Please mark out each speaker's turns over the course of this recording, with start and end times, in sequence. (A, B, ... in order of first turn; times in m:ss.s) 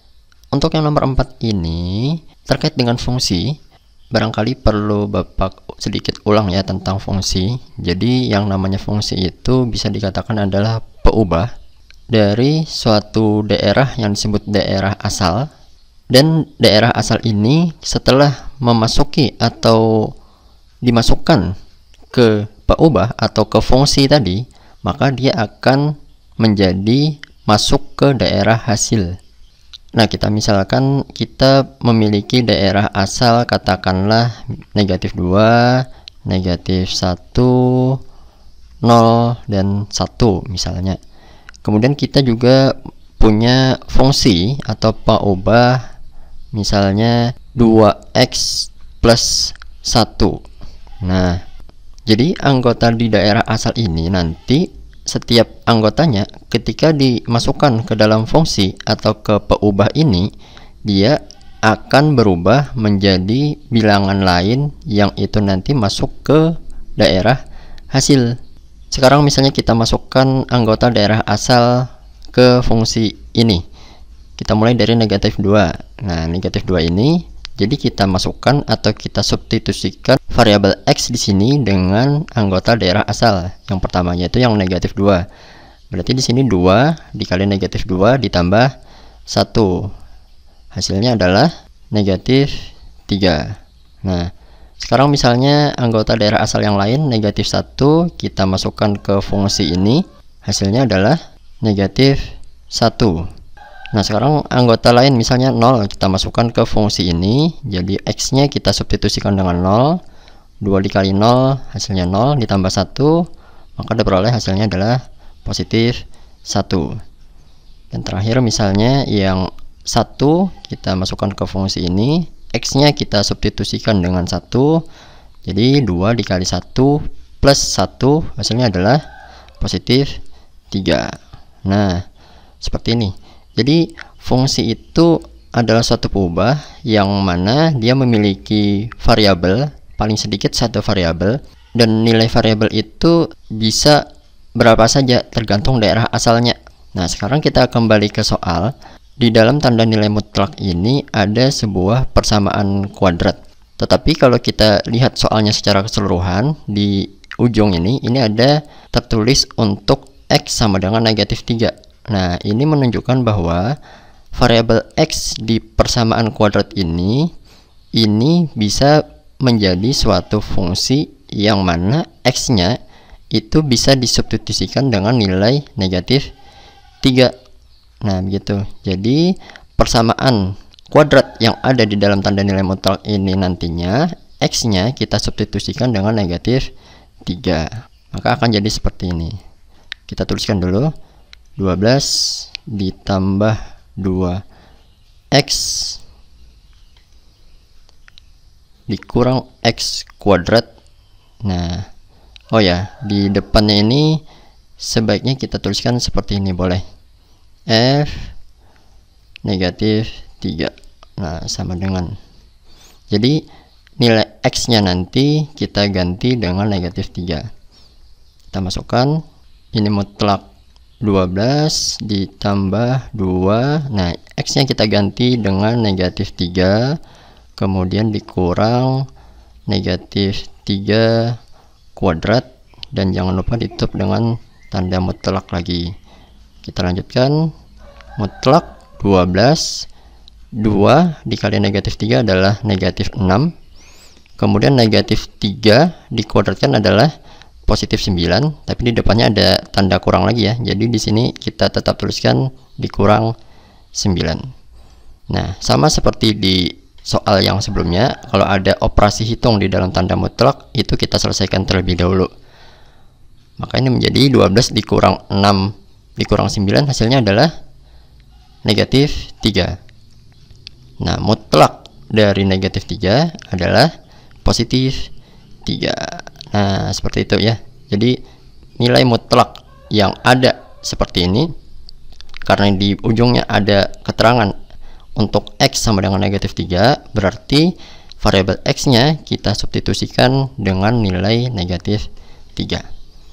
0:00.5-0:03.5 A
0:04.1-0:11.5 A
0:12.1-0:15.5 A
0:16.1-0:20.1 A
0:20.8-0:21.5 A
0:22.1-0:29.2 A
0:30.0-0:38.0 A
0:38.8-0:41.0 A
0:41.6-0:45.9 A
0:46.5-0:50.4 A
0:51.0-0:51.4 A
0:52.1-1:00.3 A
1:00.9-1:08.3 A
1:08.9-1:13.6 A
1:14.4-1:25.2 A
1:25.9-1:28.7 A
1:29.3-1:29.9 A
1:30.7-1:43.3 A
1:43.9-1:50.0 A
1:50.6-1:53.2 A
1:53.8-1:57.0 A
1:57.9-2:04.8 A
2:05.4-2:09.0 A
2:09.6-2:10.2 A
2:10.7-2:12.0 A
2:12.6-2:24.0 A
2:24.6-2:43.7 A
2:44.3-2:47.3 A
2:48.0-2:52.7 A
2:53.3-2:56.3 A
2:57.0-2:57.3 A
2:58.0-3:06.7 A
3:07.2-3:09.4 A
3:10.1-3:10.9 A
3:11.6-3:14.4 A
3:15.3-3:16.0 A
3:18.9-3:20.7 A
3:21.4-3:21.8 A
3:22.5-3:24.2 A
3:24.8-3:26.8 A
3:27.7-3:28.3 A
3:29.4-3:32.2 A
3:33.1-3:33.4 A
3:34.0-3:37.5 A
3:38.5-3:39.2 A
3:39.7-3:40.4 A
3:41.0-3:47.0 A
3:47.6-3:49.1 A
3:49.7-3:51.4 A
3:52.0-3:55.9 A
3:56.6-3:57.5 A
3:58.2-3:59.9 A
4:00.6-4:03.5 A
4:04.4-4:07.1 A
4:07.7-4:13.3 A
4:13.9-4:14.4 A
4:15.3-4:22.3 A
4:23.6-4:27.5 A
4:28.6-4:29.8 A
4:31.0-4:33.9 A
4:34.4-4:35.1 A
4:35.6-4:38.2 A
4:38.8-4:41.5 A
4:42.4-4:44.5 A
4:45.2-4:52.8 A